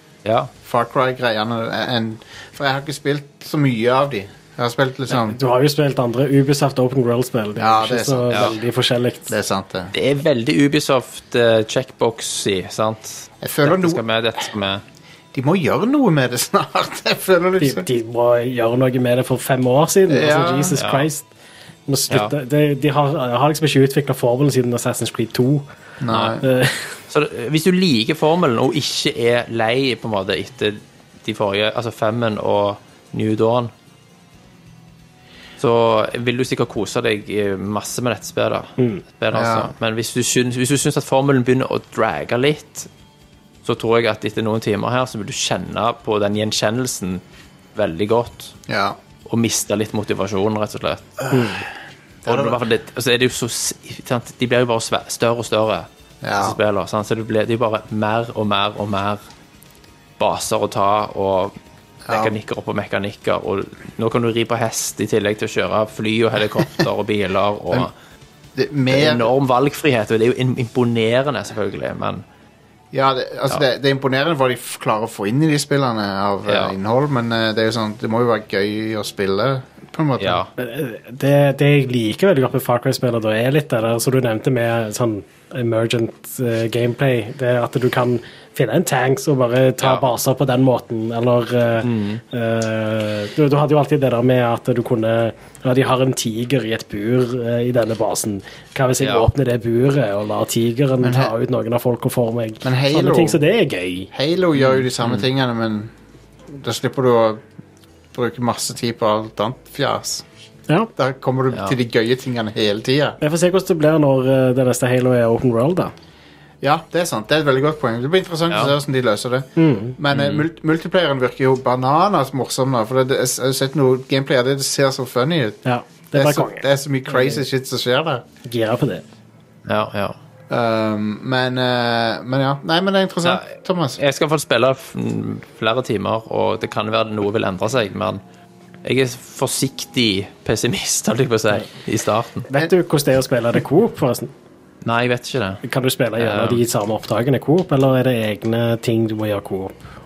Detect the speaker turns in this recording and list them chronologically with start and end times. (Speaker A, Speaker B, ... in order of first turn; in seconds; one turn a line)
Speaker A: 0.2-0.5
Speaker B: 0.6-5.4
Speaker C: 5.1-9.3
Speaker B: 7.6-8.6
Speaker B: 9.3-9.9
Speaker A: 9.9-14.8
Speaker B: 13.4-14.0
Speaker B: 15.3-17.9
Speaker C: 17.6-21.2
Speaker B: 20.1-20.8
Speaker A: 20.7-21.1
Speaker C: 21.9-25.6
Speaker A: 22.1-22.3
Speaker B: 26.0-26.4
Speaker A: 26.1-26.4
Speaker C: 26.4-26.9
Speaker A: 27.1-33.7
Speaker A: 35.6-42.9
Speaker B: 39.3-39.7
Speaker A: 43.6-47.2
Speaker A: 47.7-48.5
Speaker B: 48.7-49.0
Speaker A: 49.2-51.2
Speaker B: 51.2-51.6
Speaker C: 51.3-51.6
Speaker B: 52.2-52.6
Speaker A: 52.2-59.2
Speaker B: 56.2-56.6
Speaker A: 60.2-61.5
Speaker B: 62.0-62.4
Speaker A: 62.1-67.9
Speaker B: 68.5-69.3
Speaker A: 68.9-72.2
Speaker B: 72.9-80.4
Speaker A: 76.5-76.7
Speaker A: 80.2-80.5
Speaker C: 80.6-104.1
Speaker A: 91.8-92.2
Speaker A: 99.0-99.3
Speaker B: 101.0-101.3
Speaker B: 102.6-103.4
Speaker B: 104.1-105.9
Speaker A: 104.5-105.2
Speaker B: 106.5-107.4
Speaker B: 108.1-110.2
Speaker B: 111.0-113.2
Speaker A: 111.5-111.8
Speaker C: 113.2-115.9
Speaker B: 116.6-125.6
Speaker C: 119.6-119.9
Speaker A: 120.1-120.4
Speaker C: 125.6-127.4
Speaker B: 126.1-128.2
Speaker C: 128.5-129.0
Speaker A: 129.7-130.2
Speaker B: 130.5-134.0
Speaker A: 133.2-138.2
Speaker A: 138.8-142.5
Speaker C: 142.5-144.3
Speaker A: 144.8-145.6
Speaker C: 145.6-149.8
Speaker A: 146.2-146.6